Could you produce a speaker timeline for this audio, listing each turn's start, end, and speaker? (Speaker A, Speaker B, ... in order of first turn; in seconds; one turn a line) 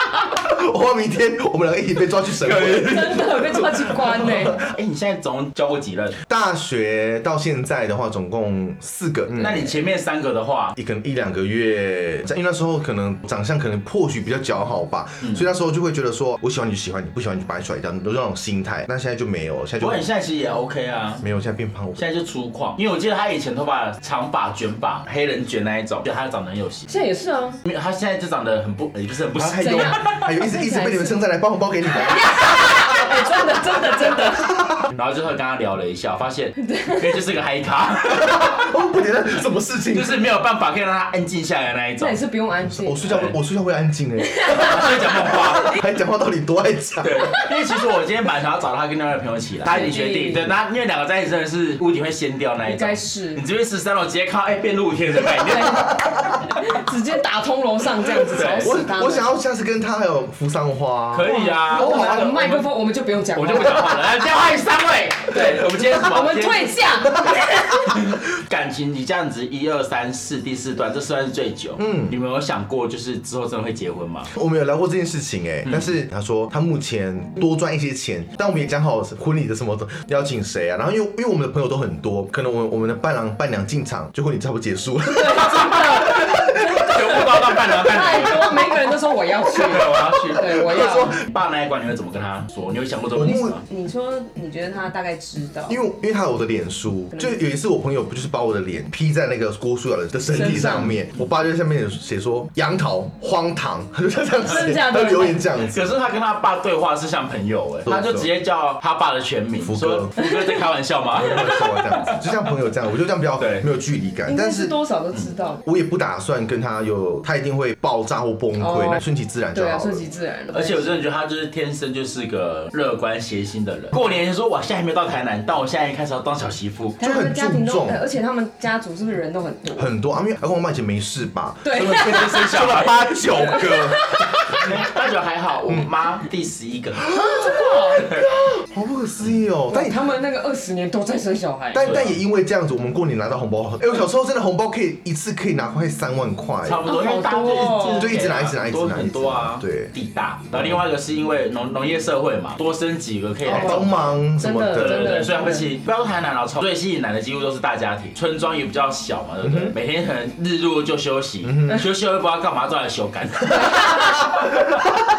Speaker A: 0.3-4.7
Speaker B: 2.4-6.2
Speaker C: 2.8-4.6
Speaker A: 6.3-9.7
Speaker B: 9.3-10.7
Speaker A: 10.7-20.1
Speaker B: 19.8-21.2
Speaker A: 21.2-22.1
Speaker B: 22.0-26.9
Speaker C: 26.9-27.6
Speaker B: 27.6-30.2
Speaker A: 29.3-34.9
Speaker C: 29.6-31.2
Speaker C: 31.9-34.5
Speaker B: 34.9-38.6
Speaker C: 36.6-37.2
Speaker A: 38.1-40.1
Speaker B: 39.9-42.2
Speaker C: 42.0-43.0
Speaker A: 42.6-47.3
Speaker B: 43.0-43.3
Speaker C: 44.3-44.9
Speaker B: 44.5-45.8
Speaker C: 45.5-45.8
Speaker B: 47.0-56.0
Speaker C: 47.2-47.5
Speaker C: 49.6-50.5
Speaker C: 52.6-53.4
Speaker C: 55.4-59.3
Speaker A: 55.8-56.4
Speaker B: 58.3-58.7
Speaker A: 58.6-62.3
Speaker B: 61.1-62.7
Speaker C: 61.2-64.0
Speaker B: 63.3-74.3
Speaker C: 65.3-67.9
Speaker A: 71.8-72.2
Speaker A: 74.3-87.6
Speaker B: 75.7-75.9
Speaker C: 85.1-91.2
Speaker B: 86.1-88.7
Speaker B: 89.5-93.6
Speaker A: 90.2-91.0
Speaker A: 93.2-93.6
Speaker C: 93.3-95.8
Speaker A: 95.7-106.0
Speaker C: 97.1-97.4
Speaker C: 100.3-100.9
Speaker B: 100.4-100.9
Speaker C: 104.4-105.4
Speaker B: 105.7-111.5
Speaker A: 107.8-108.3
Speaker A: 109.6-110.2
Speaker C: 110.2-110.6
Speaker A: 111.1-114.8
Speaker C: 111.3-112.1
Speaker B: 113.4-113.7
Speaker C: 114.3-115.6
Speaker A: 115.6-120.1
Speaker C: 118.6-121.0
Speaker B: 120.5-127.0
Speaker C: 127.0-129.9
Speaker A: 127.0-128.0
Speaker A: 129.7-134.8
Speaker C: 131.6-132.6
Speaker B: 131.7-133.6
Speaker C: 133.4-134.7
Speaker B: 134.6-137.1
Speaker A: 137.0-140.0
Speaker C: 137.1-138.1
Speaker B: 138.0-138.2
Speaker C: 139.7-142.0
Speaker A: 141.7-146.8
Speaker B: 141.8-142.2
Speaker B: 146.7-154.1
Speaker C: 146.8-148.1
Speaker A: 148.0-149.9
Speaker A: 150.5-150.8
Speaker A: 153.4-155.3
Speaker C: 153.5-153.9
Speaker C: 154.4-155.7
Speaker B: 154.7-164.7
Speaker A: 159.4-159.7
Speaker A: 161.4-161.8
Speaker C: 163.6-163.9